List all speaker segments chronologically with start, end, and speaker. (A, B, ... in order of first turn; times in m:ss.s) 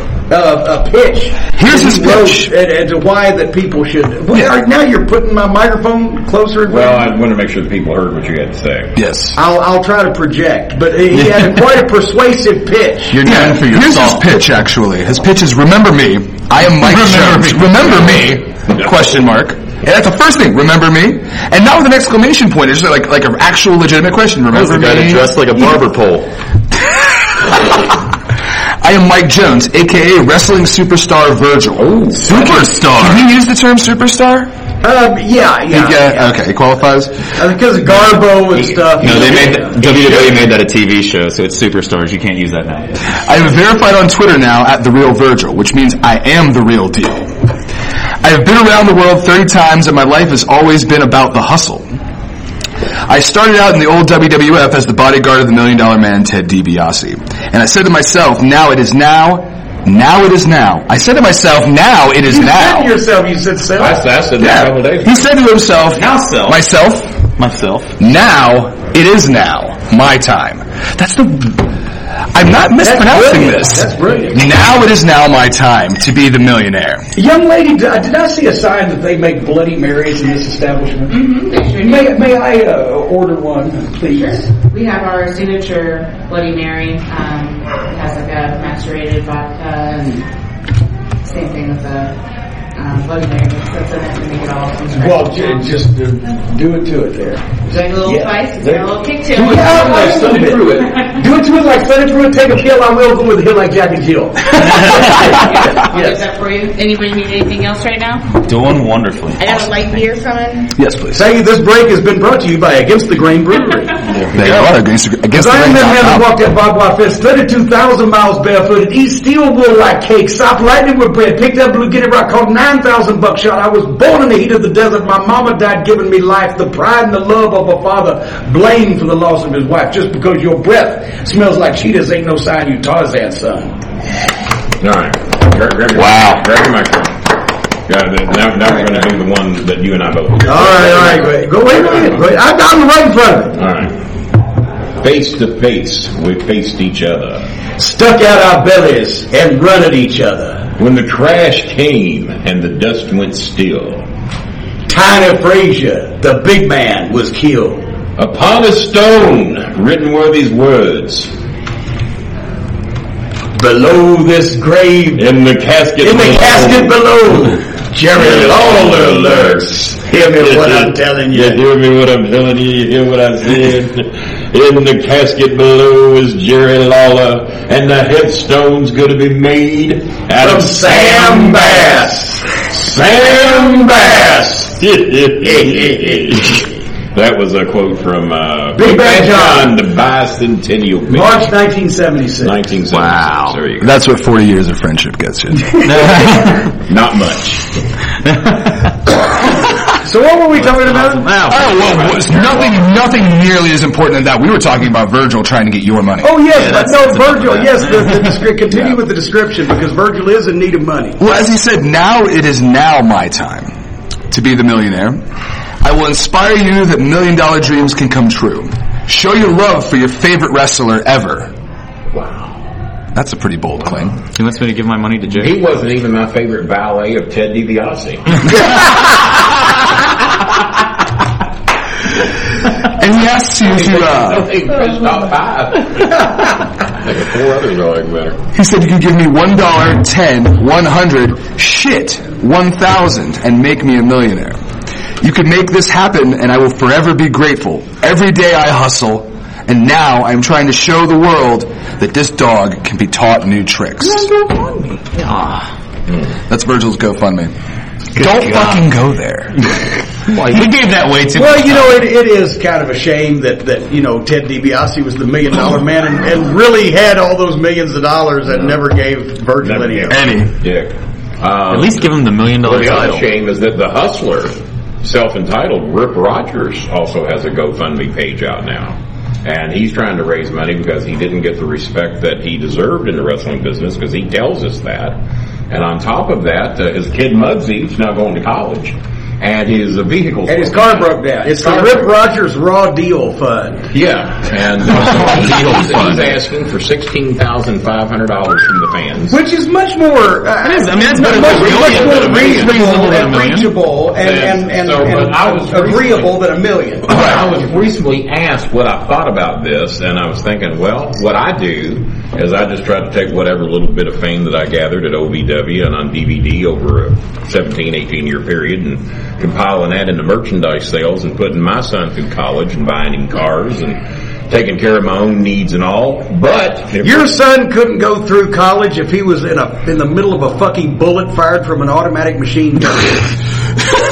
0:00.3-0:07.1 A
0:01.6-0:02.5 B
0:06.6-0:09.0 C
0:09.0-0:09.4 B
0:09.4-0:13.2 A
0:13.1-0:14.3 D
0:13.2-0:25.5 B
0:16.8-0:17.7 D
0:18.7-0:19.2 C
0:24.5-0:26.3 D
0:28.8-0:34.5 B
0:31.8-0:32.2 C
0:32.2-0:33.2 D
0:34.8-0:36.3 A
0:35.7-0:37.3 B
0:37.4-0:39.8 A
0:39.0-0:42.9 D
0:39.8-0:40.4 C
0:43.3-0:47.3 B
0:48.2-0:51.9 B
0:53.1-1:02.9 B
1:02.3-1:04.1 A
1:03.8-1:05.3 C
1:04.4-1:07.2 B
1:06.0-1:06.6 D
1:07.4-1:07.9 D
1:08.0-1:11.7 B
1:12.3-1:17.1 B
1:12.8-1:14.4 A
1:17.2-1:24.5 A
1:21.1-1:22.2 E
1:24.1-1:30.3 E
1:31.2-1:32.2 E
1:32.8-1:35.8 E
1:35.0-1:38.8 A
1:37.7-1:40.2 E
1:39.3-1:45.3 A
1:39.5-1:41.1 C
1:44.7-1:45.0 D
1:45.2-1:48.4 E
1:45.9-1:46.2 A
1:48.4-1:49.7 D
1:49.4-1:50.7 E
1:50.8-1:51.3 B
1:51.2-1:54.0 A
1:54.1-1:54.6 D
1:54.3-1:56.3 B
1:55.3-2:13.8 A
2:14.8-2:17.2 C
2:15.9-2:16.4 D
2:17.9-2:22.3 C
2:20.4-2:23.6 A
2:23.6-2:24.0 C
2:25.0-2:27.5 C
2:27.8-2:30.7 A
2:30.8-2:34.0 C
2:34.9-2:37.8 A
2:38.2-2:41.3 C
2:43.6-2:45.3 A
2:45.2-2:47.0 C
2:46.0-2:51.6 A
2:48.1-3:02.1 C
3:00.4-3:04.7 A
3:02.7-3:11.5 C
3:05.6-3:06.3 A
3:08.8-3:09.8 A
3:11.1-3:12.6 A
3:12.4-3:13.9 C
3:13.0-3:13.6 D
3:13.8-3:16.4 B
3:15.8-3:16.6 D
3:16.9-3:17.7 C
3:18.3-3:18.7 D
3:20.0-3:21.3 A
3:20.6-3:22.0 D
3:21.4-3:26.6 B
3:21.5-3:22.8 C
3:26.2-3:31.2 A
3:26.5-3:28.4 D
3:31.2-3:33.7 B
3:34.3-3:35.2 B
3:35.8-3:41.5 B
3:42.1-3:42.5 C
3:43.1-3:44.2 B
3:44.4-3:45.6 D
3:45.4-3:48.5 C
3:52.8-3:54.5 B
3:53.7-3:58.4 C
3:58.6-4:04.6 B
4:05.2-4:14.3 B
4:14.0-4:15.7 D
4:16.5-4:17.5 B
4:18.2-4:18.8 D
4:18.2-4:19.6 B
4:20.3-4:22.0 D
4:21.3-4:30.3 A
4:28.5-4:28.8 C
4:29.6-4:45.2 C
4:30.1-4:30.5 B
4:30.2-4:30.5 D
4:31.7-4:33.2 D
4:45.7-4:52.1 C
4:50.5-4:53.9 A
4:53.9-4:59.4 C
4:54.9-4:56.3 D
4:59.3-5:07.4 A
5:00.6-5:03.7 D
5:01.4-5:02.8 C
5:04.2-5:06.4 C
5:07.1-5:27.3 C
5:27.0-5:33.2 A